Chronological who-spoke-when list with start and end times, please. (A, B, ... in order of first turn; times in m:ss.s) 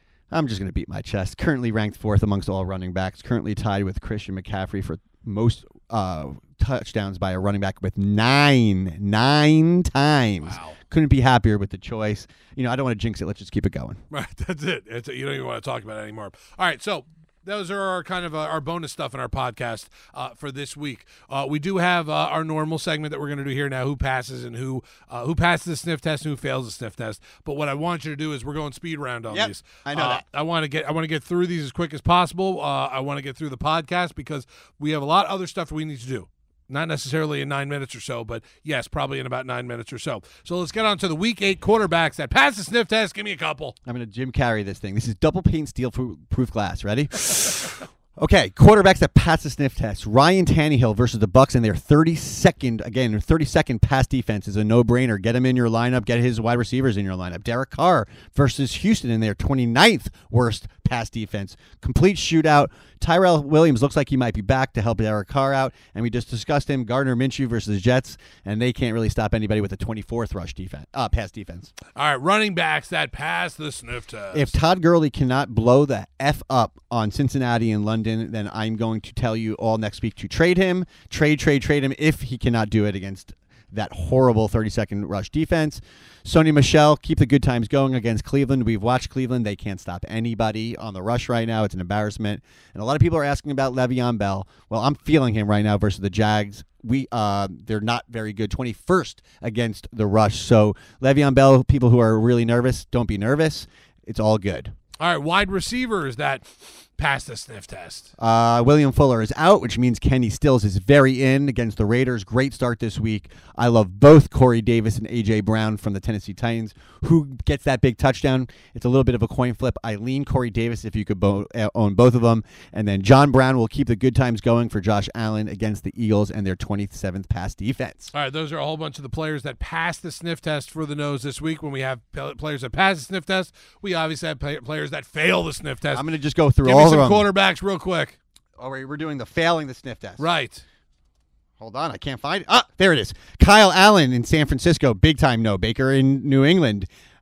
0:00.3-0:14.0 A
0:10.4-0:10.8 B
0:14.1-0:43.8 B
0:29.3-0:30.2 A
0:43.8-1:11.7 A
1:12.0-1:14.5 B
1:14.3-1:44.7 A
1:45.0-1:46.5 B
1:47.0-1:48.1 B
1:48.2-2:08.1 A
2:08.1-2:16.1 B
2:15.9-2:17.3 A
2:16.6-2:18.2 B
2:18.6-2:20.2 A
2:20.2-2:20.6 B
2:21.6-2:26.9 A